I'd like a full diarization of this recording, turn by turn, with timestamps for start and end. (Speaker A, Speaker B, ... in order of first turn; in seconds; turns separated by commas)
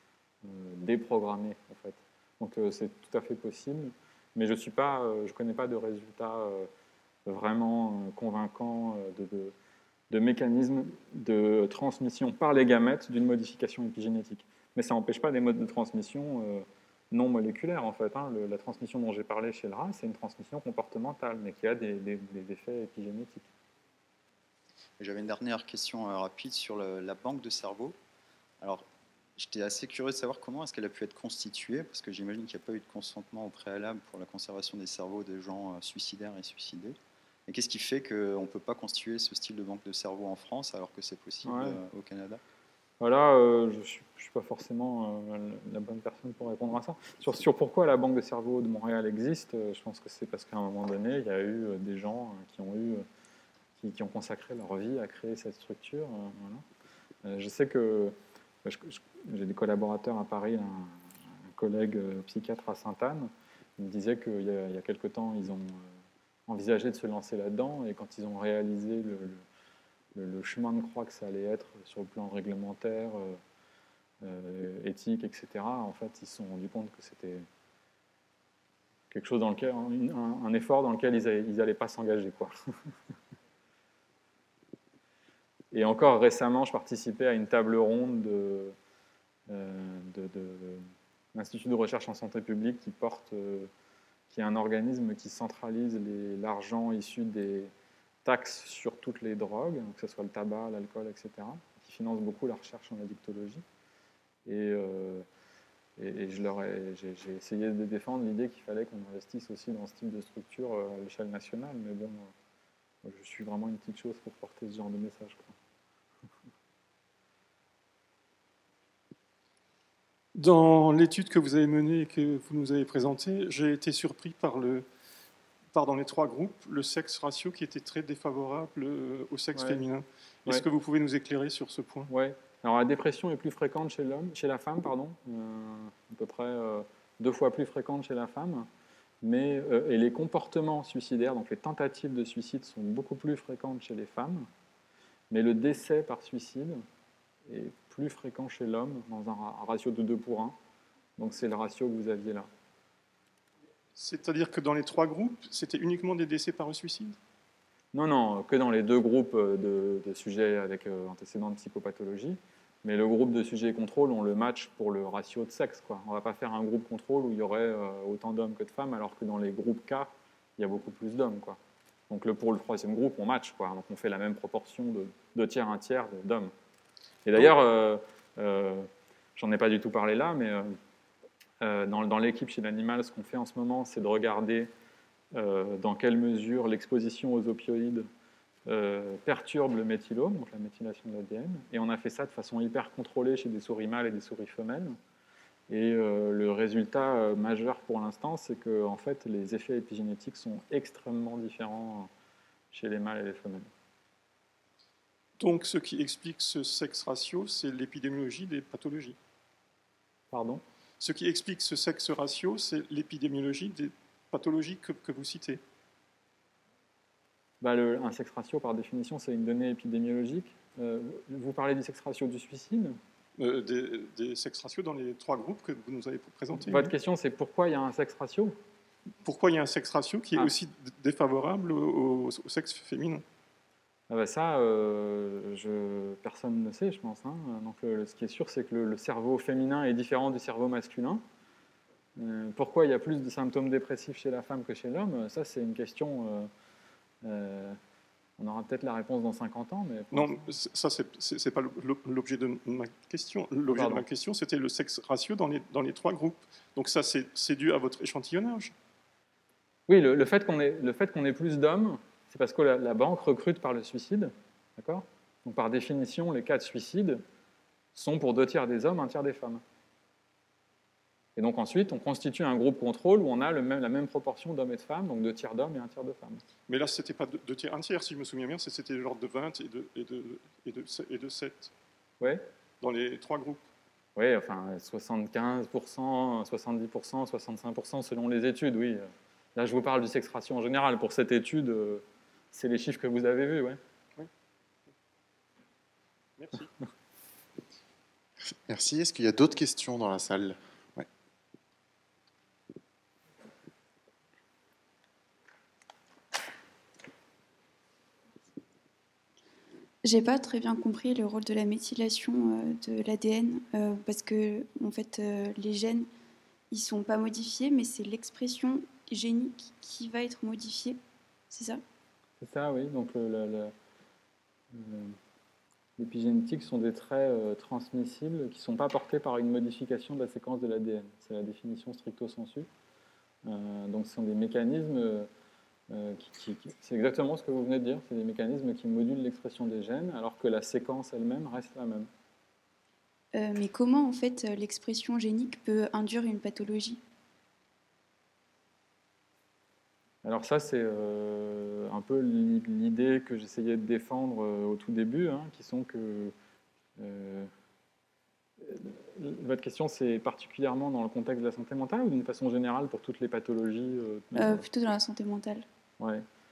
Speaker A: 0.4-6.7, Speaker A: 7.2-9.5, Speaker A: 10.1-23.5, Speaker B: 25.0-27.9, Speaker B: 28.6-28.9, Speaker B: 29.4-42.4, Speaker A: 41.4-41.8, Speaker A: 43.0-53.0, Speaker A: 53.8-56.6, Speaker A: 57.2-69.4, Speaker A: 70.1-73.4, Speaker A: 74.2-77.5, Speaker A: 79.1-82.6, Speaker A: 85.7-88.7, Speaker A: 89.5-93.7, Speaker A: 94.3-97.7, Speaker A: 98.2-103.6, Speaker A: 104.5-105.2, Speaker A: 106.0-112.3, Speaker A: 113.0-115.5, Speaker C: 120.3-124.8, Speaker C: 125.7-132.1, Speaker A: 129.6-129.8, Speaker A: 132.1-138.7, Speaker A: 139.2-144.5, Speaker A: 145.3-146.8, Speaker A: 147.5-150.6, Speaker A: 151.2-152.5, Speaker C: 153.9-157.2, Speaker A: 157.9-171.6, Speaker A: 172.1-176.5, Speaker A: 177.2-180.8, Speaker A: 181.6-184.7, Speaker A: 185.3-188.1, Speaker A: 188.7-195.0, Speaker A: 195.7-202.1, Speaker A: 202.7-203.7, Speaker C: 205.4-209.2, Speaker A: 210.3-210.6, Speaker C: 211.0-215.6, Speaker A: 217.6-223.0, Speaker C: 223.4-226.9, Speaker A: 226.6-228.6, Speaker C: 229.2-233.2, Speaker A: 234.1-241.2, Speaker A: 242.2-246.5, Speaker A: 247.2-247.8, Speaker A: 248.4-250.4, Speaker C: 250.1-258.7, Speaker A: 253.7-254.0, Speaker A: 259.9-267.2, Speaker A: 267.9-269.6, Speaker A: 271.4-276.4, Speaker C: 276.7-281.7, Speaker C: 282.8-283.6, Speaker A: 284.1-293.8, Speaker C: 296.4-296.7, Speaker D: 298.5-301.1, Speaker E: 310.0-316.1, Speaker E: 316.7-321.0, Speaker E: 321.5-321.8, Speaker A: 322.4-323.7, Speaker A: 324.7-325.2, Speaker A: 326.0-332.7, Speaker A: 333.4-335.3, Speaker A: 335.9-342.1, Speaker E: 343.3-347.0, Speaker A: 350.2-356.3, Speaker A: 357.0-357.5, Speaker A: 358.6-364.7, Speaker E: 364.3-365.6, Speaker A: 366.0-366.2